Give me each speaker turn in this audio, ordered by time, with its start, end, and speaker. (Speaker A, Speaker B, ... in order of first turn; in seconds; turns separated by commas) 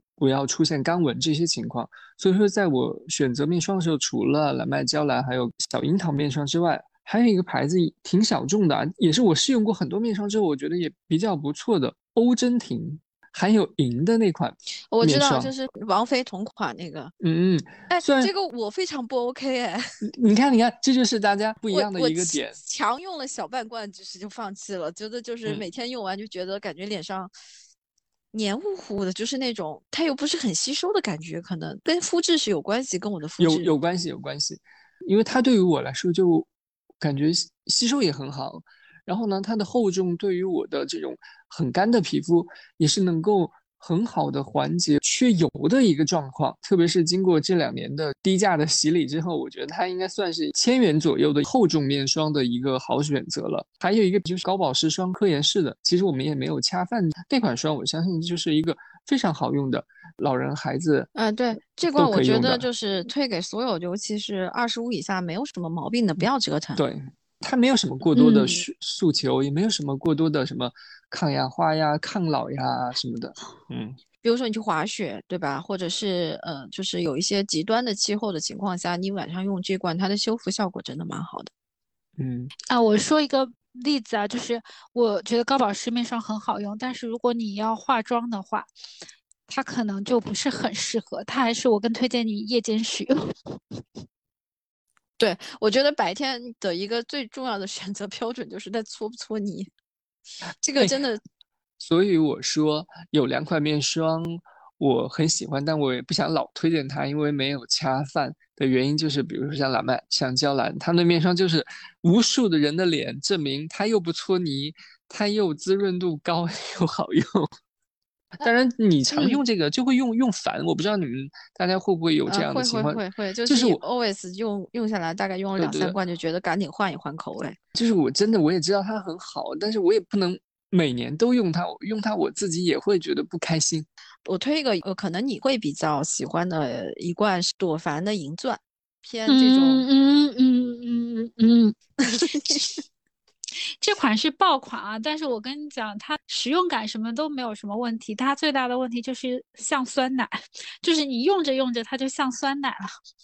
Speaker A: 0.2-15.5, Speaker B: 14.9-17.1, Speaker A: 17.2-18.3, Speaker B: 17.9-19.8, Speaker A: 20.2-22.6, Speaker B: 21.7-27.3, Speaker B: 28.3-33.7, Speaker A: 33.4-36.5, Speaker A: 37.0-61.1, Speaker B: 61.1-66.8, Speaker A: 61.9-62.7, Speaker A: 66.8-74.0, Speaker C: 68.1-68.6, Speaker B: 74.2-81.5, Speaker A: 82.2-82.5, Speaker C: 82.7-88.7, Speaker C: 89.5-93.8, Speaker B: 95.2-99.7, Speaker B: 100.6-101.2, Speaker A: 101.8-117.5, Speaker A: 118.4-123.8, Speaker B: 119.1-119.4, Speaker B: 122.3-127.6, Speaker A: 125.6-126.0, Speaker A: 127.7-133.9, Speaker B: 134.2-139.8, Speaker C: 139.3-142.8, Speaker B: 142.0-142.6, Speaker C: 143.8-152.9